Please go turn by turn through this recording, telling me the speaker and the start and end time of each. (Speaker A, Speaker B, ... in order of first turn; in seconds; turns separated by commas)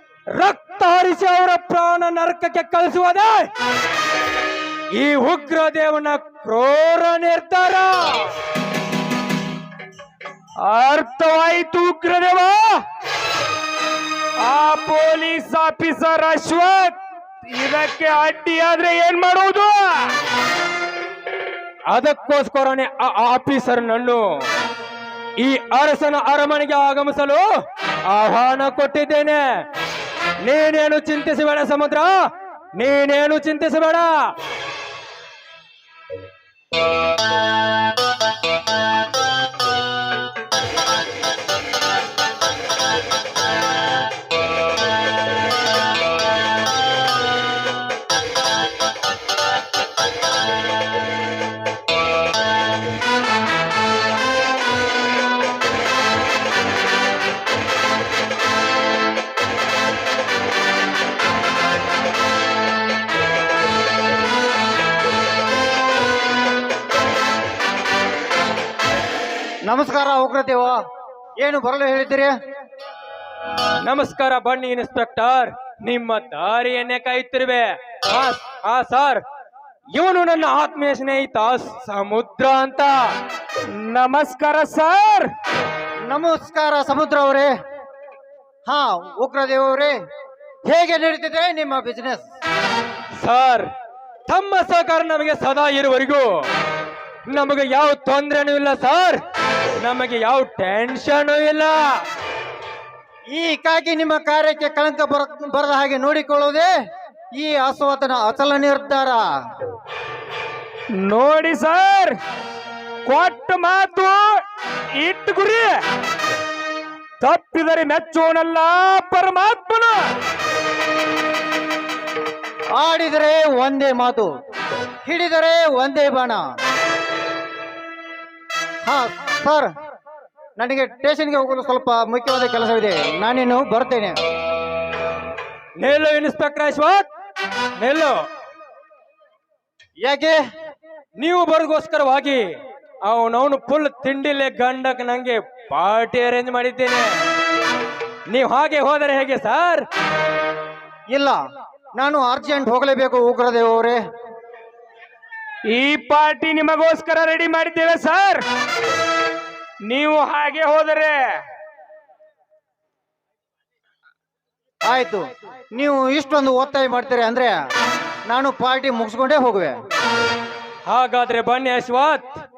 Speaker A: 0.3-3.5, Speaker A: 4.9-8.4, Speaker B: 10.6-12.8, Speaker B: 14.4-20.1, Speaker A: 21.9-24.4, Speaker A: 25.4-27.5, Speaker A: 28.1-29.6, Speaker A: 30.4-34.3, Speaker C: 69.7-70.8, Speaker C: 71.4-72.3, Speaker A: 73.8-79.2, Speaker A: 79.9-83.1, Speaker B: 83.7-85.3, Speaker C: 86.1-87.5, Speaker C: 88.7-90.0, Speaker C: 90.7-92.2, Speaker A: 93.2-93.7, Speaker A: 94.3-96.5, Speaker A: 97.3-99.2, Speaker A: 99.8-102.0, Speaker C: 103.3-106.7, Speaker C: 107.3-109.3, Speaker B: 111.0-112.2, Speaker B: 113.1-114.4, Speaker B: 115.0-115.8, Speaker B: 117.2-120.1, Speaker C: 122.8-124.3, Speaker C: 125.0-126.5, Speaker C: 128.9-129.7, Speaker C: 130.6-134.2, Speaker A: 135.8-137.1, Speaker A: 137.8-138.2, Speaker C: 140.0-140.4, Speaker A: 141.2-142.5, Speaker A: 143.0-147.2, Speaker A: 148.3-149.8, Speaker C: 151.1-151.4, Speaker C: 152.0-154.0, Speaker B: 155.7-158.4, Speaker B: 159.9-161.4, Speaker C: 164.9-167.6, Speaker C: 168.3-169.8, Speaker A: 170.9-172.4